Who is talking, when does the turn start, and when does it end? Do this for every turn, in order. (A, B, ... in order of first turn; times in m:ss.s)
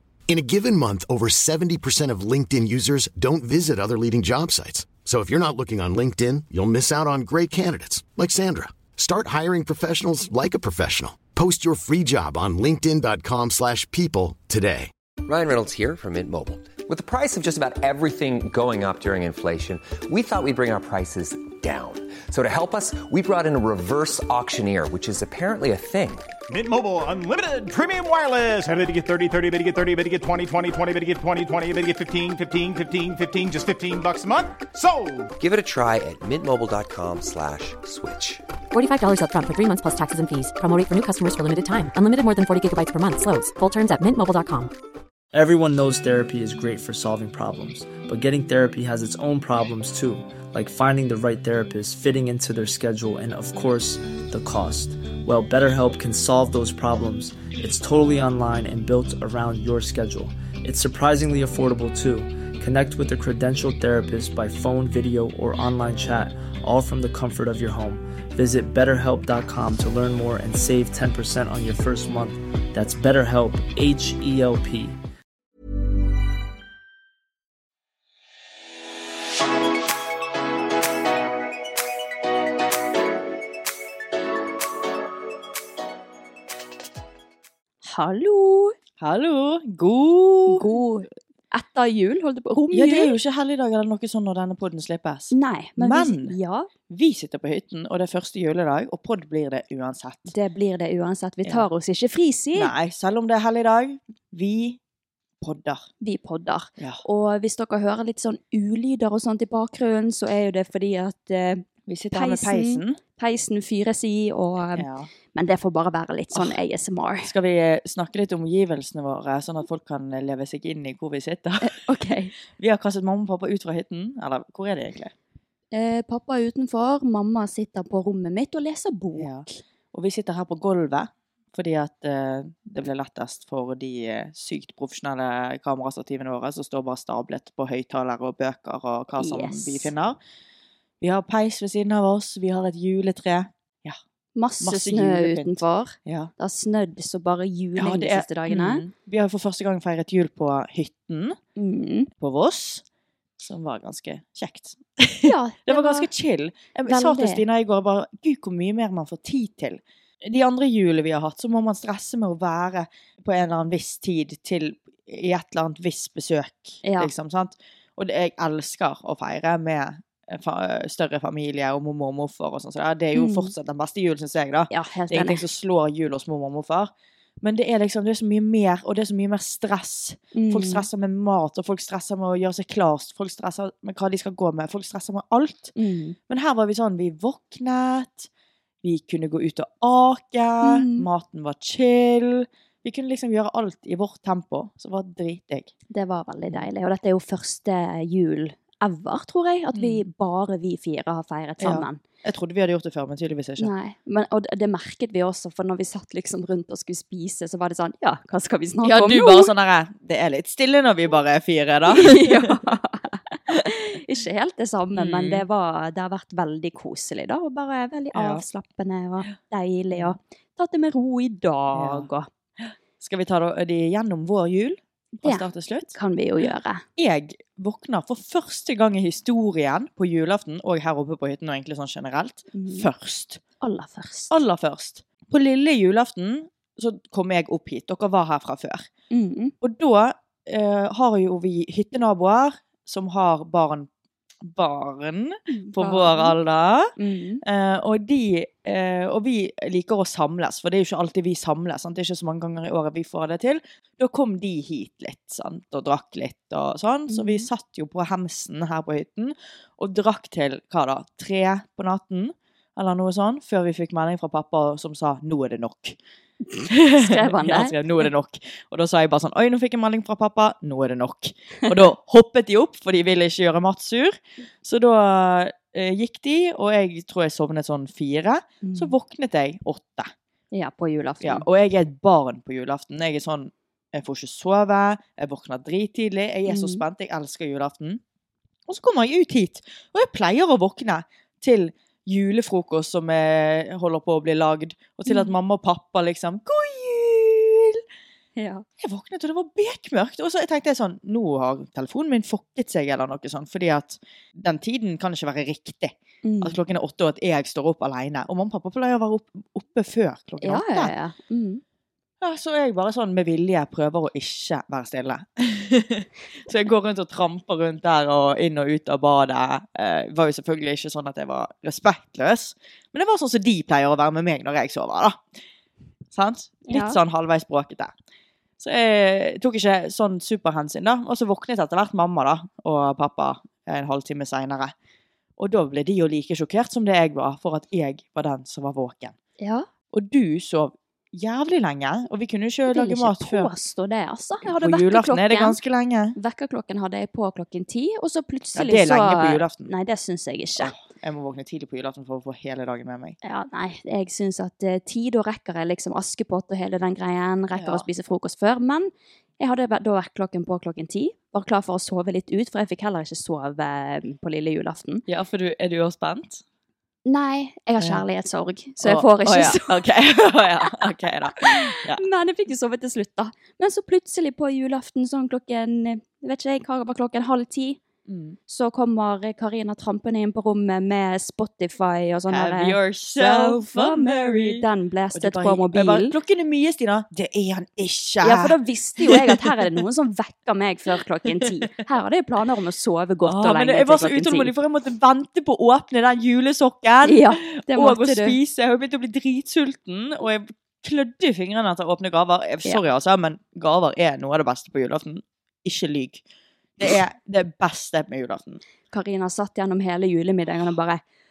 0:00.3-0:14.9 A
0:15.2-0:26.3 B
0:26.5-0:35.3 C
0:35.4-0:38.4 B
0:38.7-0:44.7 D
0:45.3-1:15.0 E
1:27.8-1:28.7 F
1:29.0-1:30.7 G
1:30.5-1:33.2 F
1:32.7-1:36.4 G
1:35.3-1:36.7 F
1:36.9-1:40.3 G
1:40.3-1:42.7 F
1:42.5-1:44.8 G
1:45.4-1:45.9 G
1:46.0-1:57.3 F
1:51.9-1:53.0 G
1:54.8-1:55.1 G
1:57.2-2:01.8 G
2:01.6-2:02.3 F
2:02.5-2:05.1 G
2:05.7-2:09.6 F
2:09.2-2:20.2 G
2:19.1-2:19.9 F
2:21.0-2:24.0 G
2:24.4-2:28.8 F
2:24.6-2:26.3 G
2:27.8-2:31.4 G
2:31.6-2:32.1 F
2:32.1-2:32.8 G
2:33.4-3:05.7 G
2:35.2-2:36.1 F
2:36.9-2:37.4 F
2:46.8-2:47.1 F
2:53.1-2:53.5 F
2:54.7-2:55.4 F
3:00.3-3:00.8 F
3:05.8-3:06.2 F
3:06.3-3:08.3 G
3:08.8-3:15.7 G
3:10.6-3:11.1 F
3:15.9-3:22.0 F
3:19.7-3:20.0 G
3:21.6-3:23.7 G
3:23.6-3:29.5 F
3:28.8-3:32.6 G
3:31.9-3:42.3 F
3:34.9-3:35.4 G
3:38.1-3:38.4 G
3:41.7-3:42.1 G
3:43.0-3:45.9 G
3:45.2-3:46.8 F
3:47.0-3:53.4 G
3:52.5-3:52.9 F
3:53.6-3:54.4 F
3:54.3-3:58.9 G
3:59.1-3:59.5 F
3:59.6-4:03.9 G
4:04.4-4:26.0 G
4:05.5-4:06.4 F
4:07.0-4:07.4 F
4:17.1-4:17.5 F
4:26.5-4:27.8 F
4:26.6-4:40.1 G
4:38.6-4:38.9 F
4:40.5-4:41.4 F
4:41.2-4:48.0 G
4:46.5-4:46.8 F
4:48.7-4:57.8 G
4:58.4-4:58.6 F
4:58.8-5:10.9 G
5:06.2-5:06.6 F
5:10.4-5:11.6 F
5:12.2-5:25.2 G
5:26.1-5:27.9 G
5:26.7-5:27.0 F
5:28.6-5:34.7 G
5:35.4-5:39.1 G
5:39.4-5:39.7 F
5:39.9-5:43.5 G
5:42.7-5:45.6 F
5:44.4-5:46.2 G
5:46.1-5:50.7 F
5:48.5-5:49.7 G
5:50.6-5:53.2 G
5:53.2-6:05.0 F
5:57.6-5:57.8 G
6:05.0-6:06.4 G
6:07.0-6:09.9 F
6:08.8-6:12.0 G
6:11.4-6:17.8 F
6:18.1-6:18.4 G
6:18.5-6:26.1 F
6:22.3-6:29.8 G
6:28.2-6:34.5 F
6:33.2-6:46.2 G
6:37.0-6:38.4 F
6:46.8-6:48.6 G
6:48.9-6:51.0 F